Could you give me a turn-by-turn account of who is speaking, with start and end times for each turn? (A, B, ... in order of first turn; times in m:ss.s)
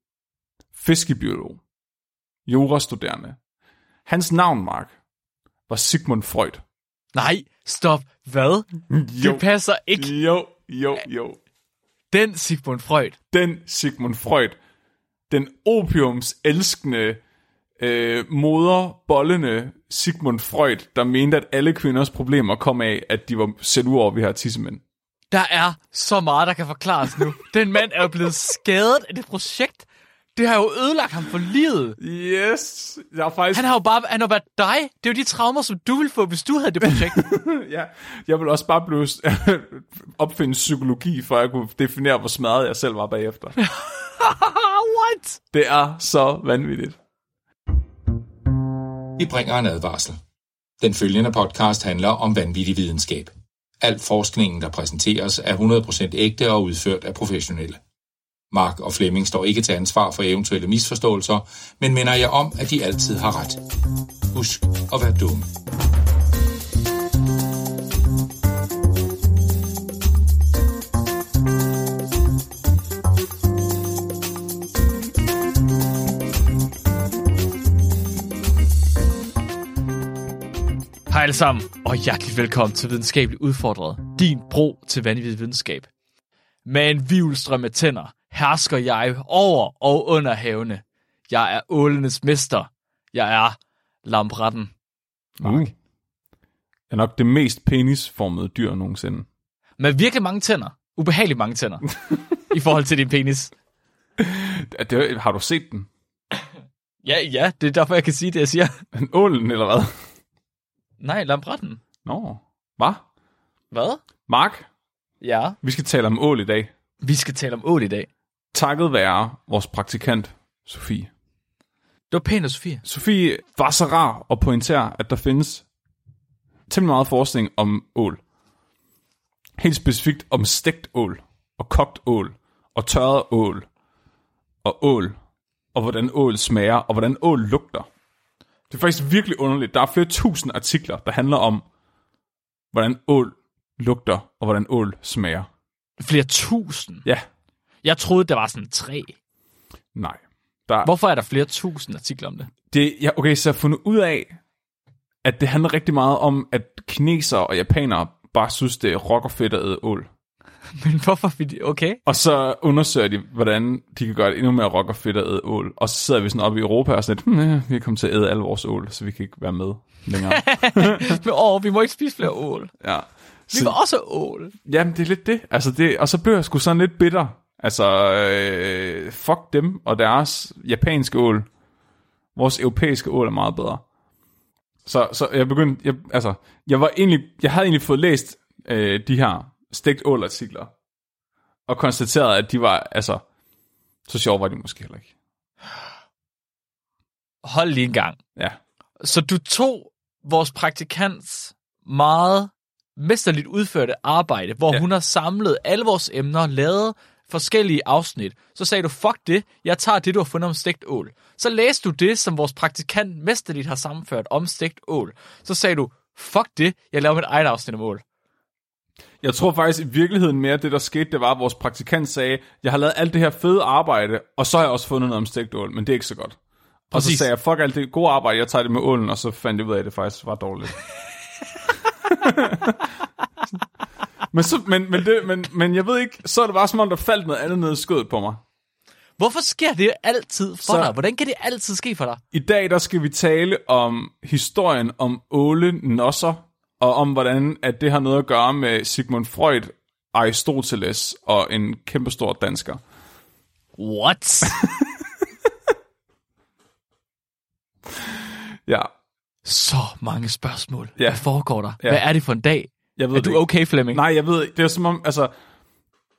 0:00.7-0:01.6 A
0:02.5-0:03.4 A
0:04.1-0:04.9 A
0:05.7-0:06.6 A
0:07.1-0:10.1 B
0:08.9-0:09.4 A
0:10.0-0:11.4 A
0:12.1-0:13.2 B
0:13.3-0:14.6 A
0:15.3-0:17.2 A
0:17.8-0:24.8 A
0:25.3-0:32.0 B
0:32.0-0:33.7 A
0:33.5-0:37.3 B
0:36.8-0:43.6 A
0:43.6-0:45.4 B
0:45.5-0:47.0 A
0:49.2-0:50.2 C
0:50.8-0:57.8 C
0:58.5-1:03.6 C
1:04.3-1:05.5 C
1:21.1-1:25.9 B
1:26.6-1:34.7 B
1:35.4-1:35.7 A
1:35.4-1:35.7 B
1:36.9-1:39.2 A
1:39.8-1:43.5 B
1:44.2-1:45.9 A
1:47.0-1:48.8 B
1:48.9-1:49.9 A
1:51.0-1:51.8 B
1:52.0-1:53.0 A
1:53.7-1:54.0 B
1:54.3-1:54.7 A
1:55.2-1:55.6 B
1:55.6-1:56.7 A
1:57.0-1:58.1 B
1:58.5-2:01.1 A
2:02.1-2:02.8 B
2:02.8-2:05.6 A
2:06.7-2:08.2 A
2:09.6-2:13.7 A
2:14.6-2:15.2 A
2:15.7-2:17.9 A
2:18.7-2:21.6 A
2:22.7-2:25.5 A
2:26.0-2:27.0 B
2:27.8-2:29.1 B
2:29.9-2:30.9 A
2:30.8-2:32.5 B
2:32.7-2:34.4 A
2:35.2-2:40.1 A
2:40.8-2:42.0 B
2:42.0-2:51.2 A
2:50.3-2:52.8 B
2:52.8-2:53.8 A
2:53.5-2:54.5 B
2:54.6-3:01.4 A
3:02.3-3:03.8 A
3:04.8-3:10.7 A
3:11.7-3:13.2 A
3:14.1-3:15.1 A
3:17.4-3:18.2 B
3:19.0-3:38.0 B
3:39.2-3:46.4 A
3:46.9-3:50.8 A
3:46.9-3:47.2 B
3:52.0-3:52.9 A
3:54.3-3:58.4 A
3:59.2-4:02.2 B
4:00.6-4:00.9 A
4:02.3-4:12.8 A
4:13.8-4:14.6 B
4:19.4-4:24.0 B
4:21.0-4:21.2 A
4:23.0-4:25.3 A